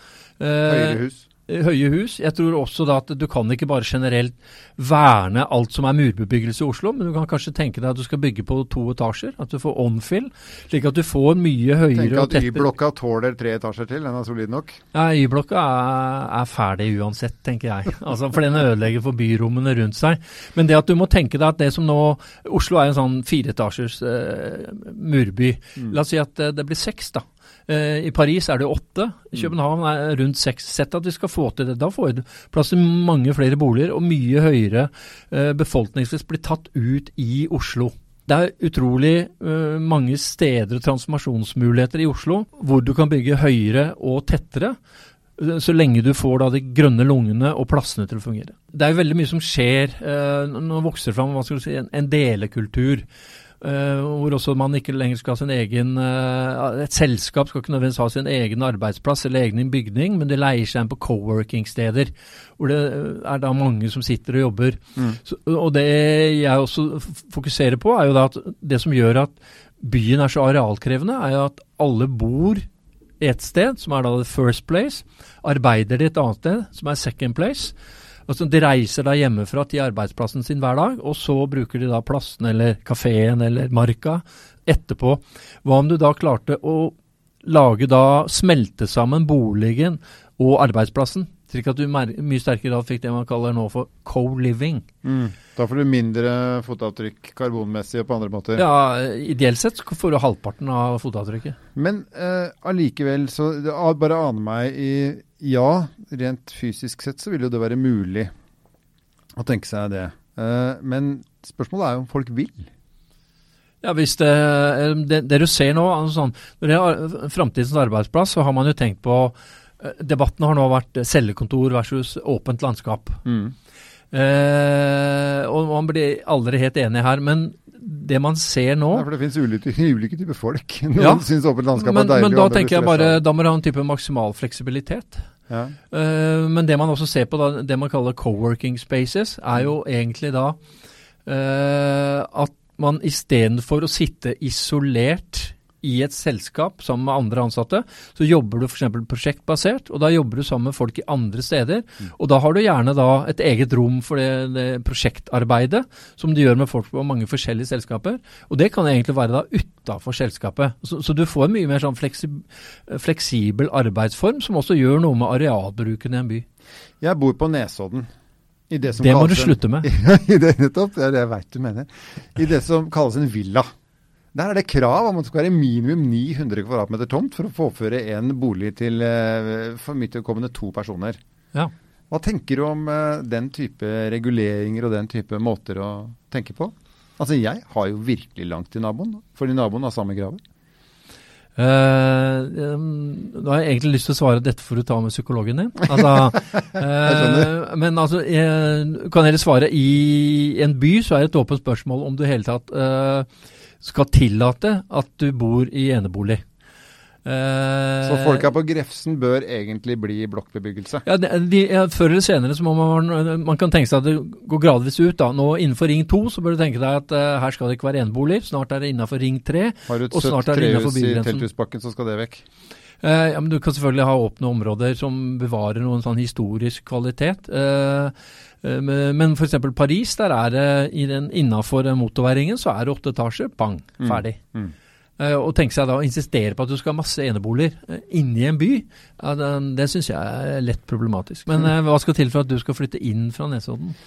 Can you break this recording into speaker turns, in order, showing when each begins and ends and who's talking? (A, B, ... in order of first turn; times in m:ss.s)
0:00.4-0:12.7 A
0:00.7-0:01.3 B
0:11.9-0:14.8 B
0:14.9-0:44.8 A
0:45.4-0:53.0 A
0:53.6-1:12.6 A
1:13.2-1:17.8 A
1:18.3-1:34.8 A
1:35.0-1:38.6 B
1:38.6-1:41.6 A
1:41.8-1:48.3 B
1:49.4-1:52.7 B
1:53.8-2:03.2 A
2:03.2-2:03.5 B
2:04.1-2:09.1 A
2:08.9-2:13.2 B
2:11.0-2:15.2 A
2:15.5-2:15.8 B
2:15.9-2:20.6 A
2:21.3-2:46.5 A
2:47.0-2:48.1 B
2:48.7-2:53.7 B
2:49.0-2:49.9 A
2:54.3-3:01.2 B
3:02.1-3:10.4 B
3:11.6-3:23.3 A
3:16.0-3:17.5 B
3:23.8-3:26.4 A
3:27.2-3:28.4 A
3:28.0-3:31.1 B
3:31.0-3:41.5 A
3:39.9-3:42.4 B
3:43.0-3:54.4 A
3:54.0-3:54.7 B
3:55.2-4:04.0 A